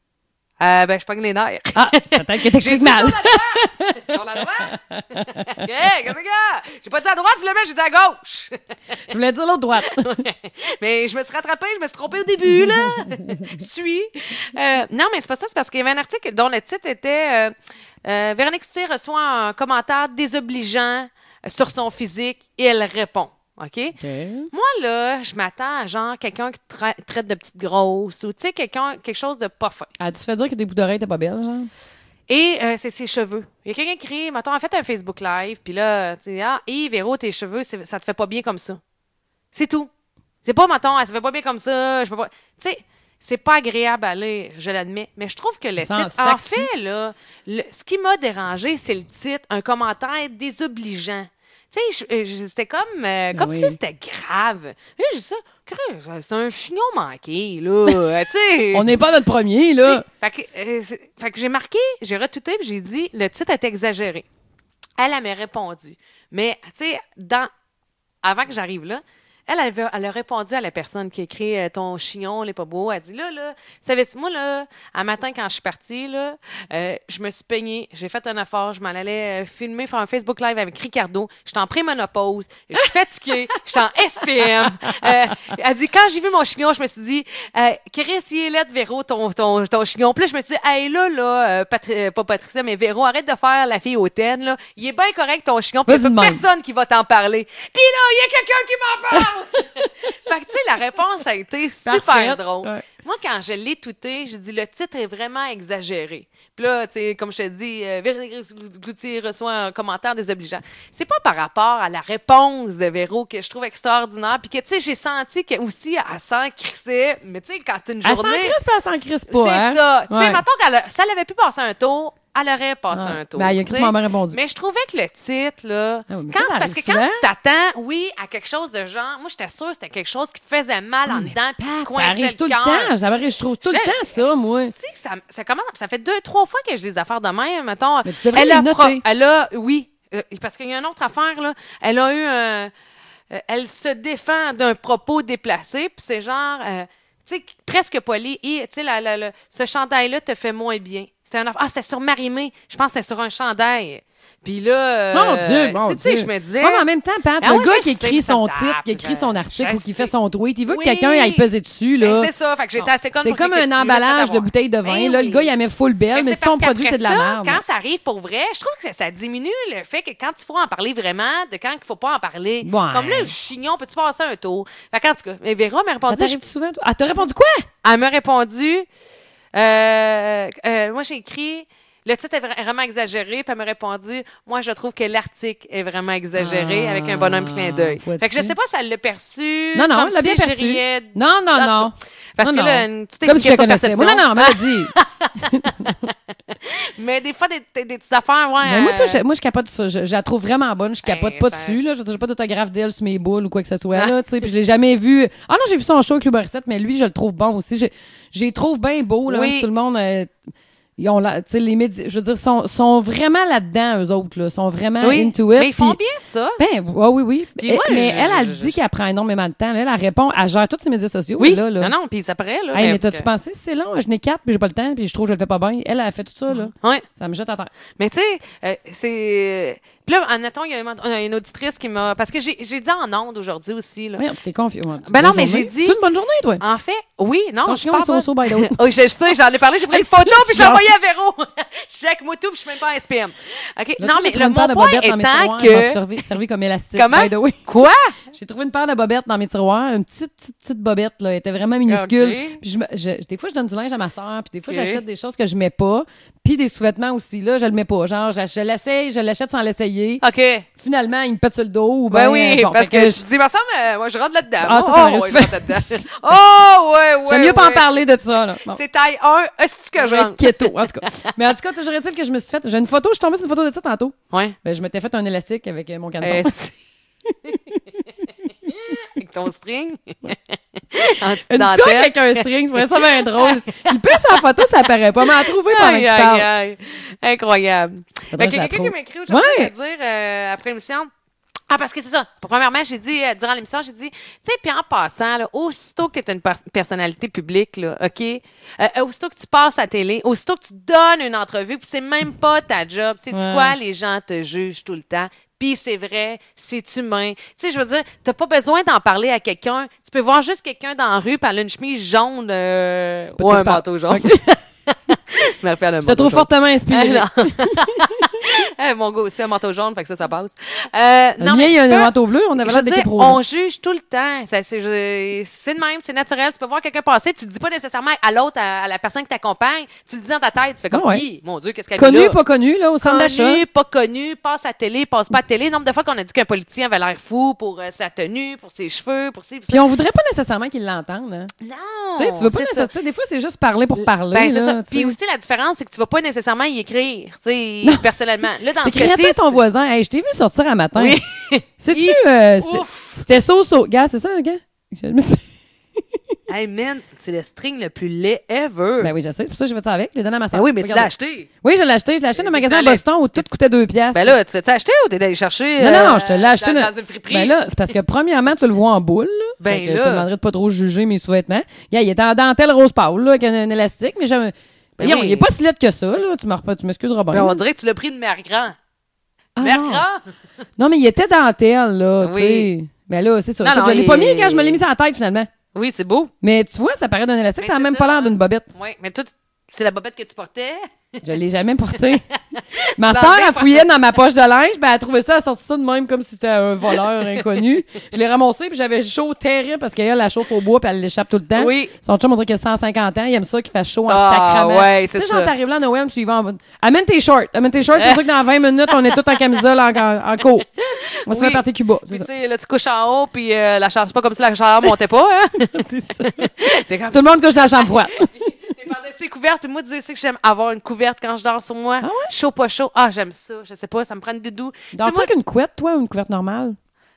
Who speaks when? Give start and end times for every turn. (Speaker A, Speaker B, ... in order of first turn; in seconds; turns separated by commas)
Speaker A: 0.6-8.7, Speaker B: 1.8-5.6, Speaker B: 9.1-10.1, Speaker A: 9.8-24.0, Speaker B: 24.0-24.5, Speaker A: 24.5-29.9, Speaker B: 30.0-31.7, Speaker A: 32.3-38.8, Speaker A: 39.5-39.9, Speaker A: 40.4-58.9, Speaker B: 45.8-46.7, Speaker B: 53.3-53.8, Speaker B: 58.7-60.0, Speaker A: 59.8-64.2, Speaker A: 65.0-67.5, Speaker A: 68.2-118.6, Speaker B: 84.3-85.3, Speaker B: 95.9-96.4, Speaker B: 101.8-102.8, Speaker B: 118.0-120.4, Speaker A: 119.3-132.9, Speaker B: 122.9-124.4, Speaker B: 126.1-127.2, Speaker B: 131.1-134.7, Speaker A: 133.6-142.7, Speaker B: 138.0-139.0, Speaker A: 143.3-156.8, Speaker B: 155.1-167.6, Speaker A: 157.4-160.1, Speaker A: 160.7-161.5, Speaker A: 162.0-165.5, Speaker A: 166.1-176.4, Speaker B: 172.6-173.3, Speaker B: 176.1-177.7, Speaker A: 177.8-178.9, Speaker A: 179.5-199.2, Speaker B: 186.3-188.5, Speaker B: 189.7-195.9, Speaker B: 198.6-210.3, Speaker A: 201.0-201.9, Speaker A: 209.3-209.7, Speaker B: 211.0-216.0, Speaker A: 215.0-216.6, Speaker B: 216.6-221.9, Speaker A: 217.6-218.8, Speaker A: 221.4-223.2, Speaker B: 222.7-227.7, Speaker A: 226.5-227.1, Speaker A: 228.0-234.3, Speaker B: 234.2-236.6, Speaker A: 235.1-236.0, Speaker A: 236.6-246.0, Speaker B: 237.7-239.1, Speaker B: 239.9-240.8, Speaker B: 244.0-247.7, Speaker A: 246.9-248.2, Speaker B: 248.3-260.2, Speaker A: 251.9-252.6, Speaker A: 254.7-255.0, Speaker A: 260.2-260.6, Speaker B: 260.8-263.2, Speaker A: 262.1-267.9, Speaker B: 264.6-266.1, Speaker B: 267.3-268.8, Speaker A: 268.7-271.3, Speaker B: 270.0-276.5, Speaker A: 274.3-274.6, Speaker A: 276.2-276.7, Speaker B: 277.4-277.8, Speaker A: 278.7-284.4, Speaker B: 281.5-286.5, Speaker A: 285.2-291.1, Speaker B: 288.3-289.7, Speaker A: 291.7-332.4, Speaker B: 303.3-303.8, Speaker B: 313.4-314.5, Speaker B: 316.0-318.2, Speaker B: 321.4-323.4, Speaker B: 330.9-331.2, Speaker B: 332.0-333.6, Speaker A: 333.0-339.9, Speaker B: 339.7-341.5, Speaker A: 341.6-342.9, Speaker B: 342.2-345.2, Speaker A: 343.9-349.6, Speaker B: 348.8-351.2, Speaker A: 350.9-353.4, Speaker B: 351.8-355.4, Speaker A: 356.5-359.1, Speaker B: 359.0-361.1, Speaker A: 360.5-361.5, Speaker B: 361.6-364.4, Speaker A: 362.3-363.5, Speaker A: 364.1-367.6, Speaker B: 365.8-377.6, Speaker A: 369.6-370.2, Speaker A: 375.0-375.5, Speaker A: 377.3-378.8, Speaker B: 379.6-380.0, Speaker A: 379.6-380.3, Speaker B: 380.8-385.5, Speaker A: 382.2-382.7, Speaker A: 383.6-384.8, Speaker A: 385.7-386.3, Speaker B: 386.4-388.7, Speaker A: 387.6-391.2, Speaker B: 391.2-392.2, Speaker A: 392.5-393.9, Speaker B: 393.0-410.7, Speaker A: 397.0-397.4, Speaker A: 401.6-401.9, Speaker A: 404.1-405.5, Speaker A: 407.9-408.2, Speaker A: 408.9-409.4, Speaker A: 410.8-425.3, Speaker B: 411.2-412.3, Speaker B: 415.7-416.5, Speaker B: 417.1-418.3, Speaker B: 422.0-422.3, Speaker B: 424.9-426.8